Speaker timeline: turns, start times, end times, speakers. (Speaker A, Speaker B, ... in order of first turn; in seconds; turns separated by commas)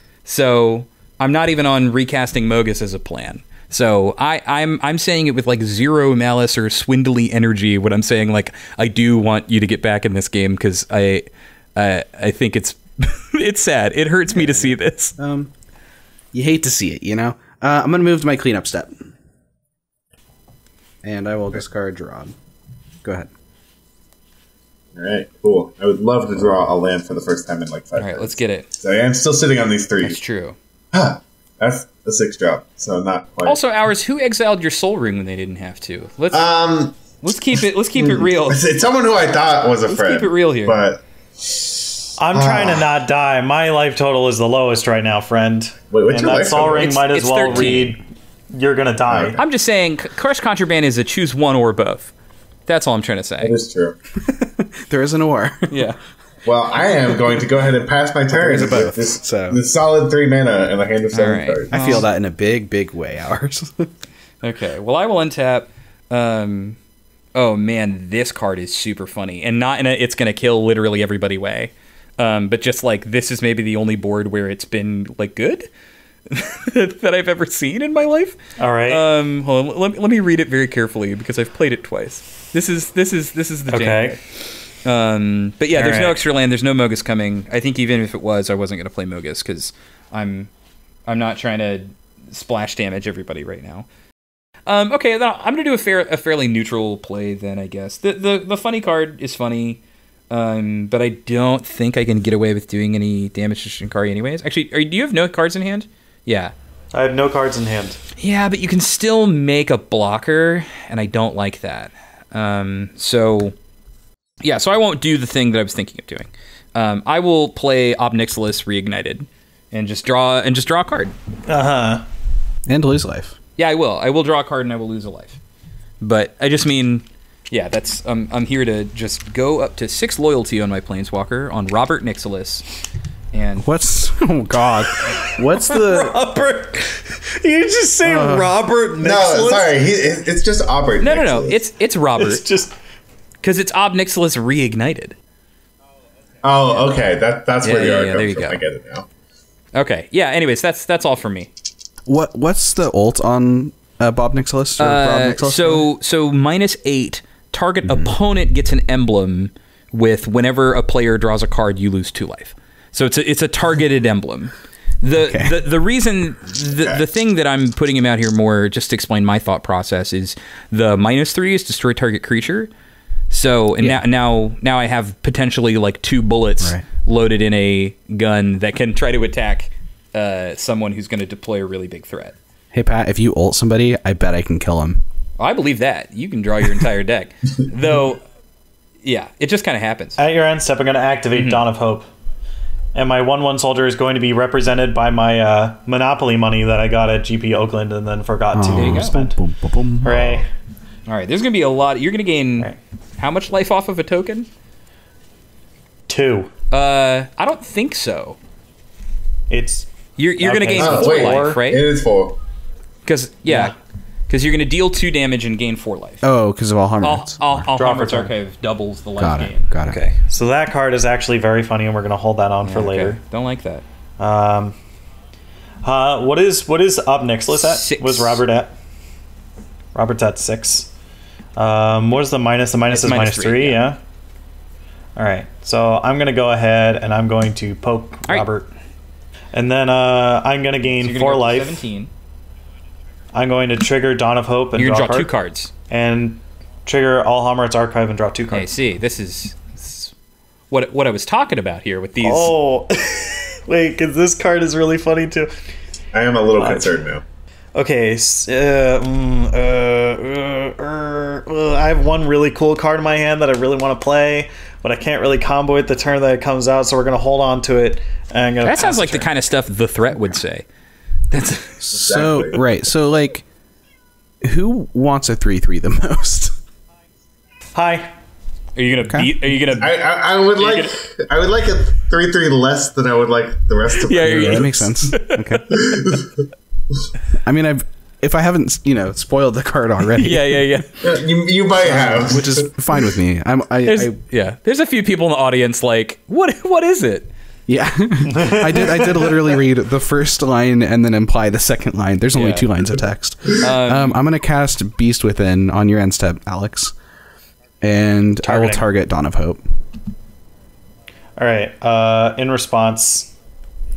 Speaker A: 0.2-15.1, Speaker B: 14.3-15.5, Speaker B: 16.3-19.0, Speaker B: 21.0-22.3, Speaker B: 23.0-23.3, Speaker C: 24.9-30.2, Speaker A: 28.0-28.7, Speaker A: 30.0-30.6, Speaker C: 30.9-33.6, Speaker A: 33.4-36.5, Speaker C: 36.3-42.9, Speaker A: 37.2-38.6, Speaker A: 39.9-40.9, Speaker D: 42.2-49.4, Speaker C: 45.9-47.0, Speaker A: 46.8-48.0, Speaker C: 49.1-49.4, Speaker A: 49.4-52.1, Speaker A: 52.7-53.5, Speaker C: 53.4-54.0, Speaker B: 54.2-55.8, Speaker A: 55.7-56.0, Speaker C: 56.4-62.0, Speaker B: 58.3-59.6, Speaker A: 61.1-62.0, Speaker B: 61.7-63.9, Speaker A: 64.4-66.8, Speaker A: 67.3-75.7, Speaker A: 76.3-84.2, Speaker D: 78.6-79.0, Speaker D: 83.7-84.2, Speaker A: 84.8-90.5, Speaker D: 85.8-86.2, Speaker A: 91.1-93.9, Speaker A: 94.7-106.5, Speaker D: 106.9-108.0, Speaker A: 108.2-113.5, Speaker A: 114.4-121.1, Speaker D: 121.5-122.0, Speaker B: 122.7-123.4, Speaker A: 123.6-125.4, Speaker A: 126.0-132.6, Speaker A: 133.3-133.7, Speaker B: 133.6-136.1, Speaker D: 135.0-139.8, Speaker B: 138.0-138.5, Speaker C: 139.0-141.6, Speaker A: 141.0-142.4, Speaker D: 142.2-142.7, Speaker A: 143.4-145.1, Speaker C: 146.4-149.1, Speaker A: 147.6-148.6, Speaker A: 149.7-151.5, Speaker B: 152.1-155.8, Speaker A: 154.8-172.7, Speaker B: 157.8-158.1, Speaker B: 165.2-165.5, Speaker A: 173.3-182.3, Speaker B: 182.7-185.0, Speaker A: 185.4-188.2, Speaker A: 189.0-190.2, Speaker D: 190.2-192.1, Speaker A: 191.3-191.6, Speaker D: 192.9-199.3, Speaker B: 198.5-200.4, Speaker A: 198.7-199.2, Speaker D: 200.0-200.5, Speaker A: 201.1-204.5, Speaker D: 206.1-206.5, Speaker A: 206.7-208.4, Speaker D: 209.5-209.9, Speaker A: 210.2-211.8, Speaker D: 210.4-211.6, Speaker C: 210.8-212.4, Speaker A: 213.1-213.7, Speaker D: 213.5-213.7, Speaker A: 214.3-216.2, Speaker B: 216.2-217.7, Speaker A: 217.0-219.7, Speaker D: 217.8-218.3, Speaker B: 219.2-220.0, Speaker D: 219.9-223.2, Speaker A: 222.6-223.8, Speaker D: 224.2-224.7, Speaker D: 225.8-228.7, Speaker A: 227.5-228.4, Speaker D: 229.9-230.9, Speaker D: 231.6-234.0, Speaker A: 232.9-233.8, Speaker D: 235.2-238.7, Speaker D: 239.5-241.8, Speaker A: 241.0-242.1, Speaker D: 243.3-245.3, Speaker A: 244.8-245.7, Speaker D: 245.9-248.7, Speaker A: 248.5-250.1, Speaker A: 250.7-252.5, Speaker D: 252.2-255.5, Speaker C: 256.1-257.2, Speaker D: 256.6-256.9, Speaker D: 257.7-269.3, Speaker A: 268.6-270.6, Speaker A: 271.3-271.8, Speaker B: 271.8-273.4, Speaker C: 271.9-272.6, Speaker B: 274.4-276.5, Speaker D: 277.7-278.1, Speaker A: 278.8-280.0, Speaker B: 279.1-279.3, Speaker C: 279.8-284.9, Speaker A: 280.6-280.9, Speaker A: 284.0-285.8, Speaker B: 284.2-285.6, Speaker C: 285.7-286.3, Speaker B: 287.4-290.7, Speaker A: 290.2-291.0, Speaker C: 291.0-292.7, Speaker B: 291.8-294.2, Speaker A: 293.9-297.3, Speaker B: 297.7-306.9, Speaker D: 298.3-299.0, Speaker A: 302.3-302.6, Speaker A: 303.6-304.2, Speaker B: 307.8-309.6, Speaker D: 308.4-308.9, Speaker D: 311.4-313.3